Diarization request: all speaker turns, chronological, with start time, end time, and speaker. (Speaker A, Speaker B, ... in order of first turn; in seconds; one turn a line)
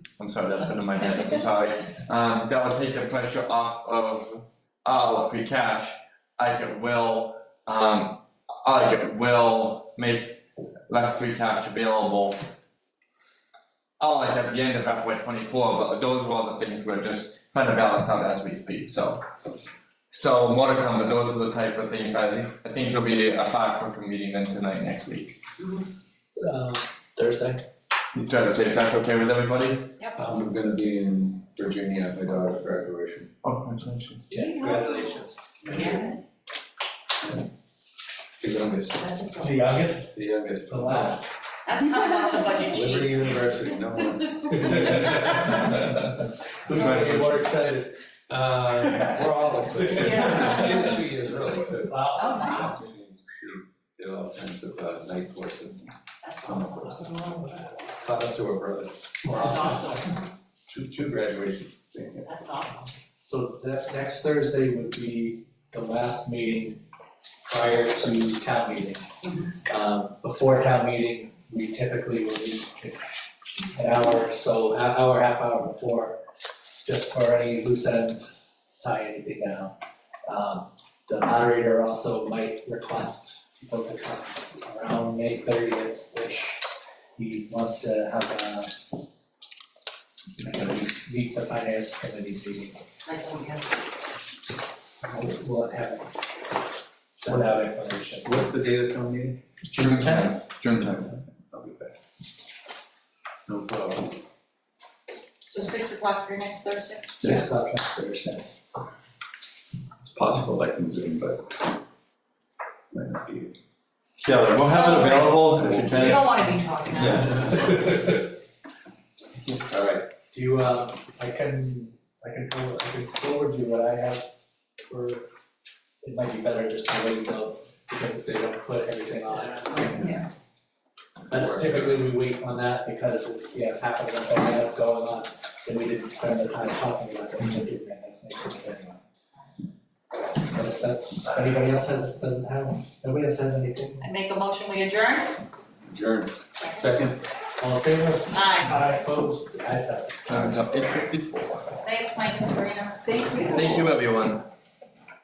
Speaker A: 0.2-12.4
Speaker A: 14.0-19.2
Speaker A: 20.1-25.4
Speaker B: 26.4-27.6
Speaker A: 28.1-29.9
Speaker C: 30.2-33.3
Speaker A: 33.4-34.3
Speaker B: 34.3-34.9
Speaker D: 34.3-36.2
Speaker C: 34.6-36.2
Speaker C: 38.4-39.3
Speaker D: 39.1-39.5
Speaker B: 39.4-40.1
Speaker C: 40.1-41.2
Speaker B: 40.7-41.3
Speaker D: 41.6-43.3
Speaker C: 42.7-45.3
Speaker B: 44.5-48.4
Speaker A: 46.7-47.5
Speaker C: 48.4-57.1
Speaker D: 49.9-51.0
Speaker B: 50.0-50.9
Speaker B: 51.9-52.7
Speaker D: 52.1-52.8
Speaker D: 56.3-57.1
Speaker B: 57.1-57.9
Speaker C: 57.9-59.9
Speaker B: 59.3-60.0
Speaker D: 59.4-60.1
Speaker C: 60.7-62.3
Speaker D: 62.3-62.9
Speaker B: 63.2-66.8
Speaker B: 67.5-69.1
Speaker B: 69.6-76.2
Speaker B: 76.8-86.6
Speaker B: 87.2-88.8
Speaker B: 90.4-92.8
Speaker D: 93.0-93.7
Speaker B: 95.0-96.1
Speaker B: 97.2-98.4
Speaker C: 97.3-97.6
Speaker C: 98.2-99.4
Speaker A: 99.7-101.2
Speaker C: 101.5-102.0
Speaker C: 103.5-104.2
Speaker D: 105.4-107.3
Speaker B: 107.2-108.5
Speaker C: 110.0-111.8
Speaker C: 112.9-113.5
Speaker A: 114.2-116.3
Speaker D: 114.5-117.7
Speaker C: 115.5-116.2
Speaker C: 117.0-117.9
Speaker B: 117.3-118.3
Speaker C: 119.7-120.1
Speaker B: 120.3-124.3
Speaker B: 124.8-125.2
Speaker B: 126.0-130.1
Speaker C: 131.3-132.2
Speaker B: 131.3-139.0
Speaker B: 140.4-144.1
Speaker D: 144.0-145.4
Speaker C: 145.9-147.2
Speaker B: 147.6-150.3
Speaker D: 148.3-148.8
Speaker A: 150.3-151.6
Speaker C: 150.3-150.6
Speaker D: 151.8-153.9
Speaker A: 153.4-154.4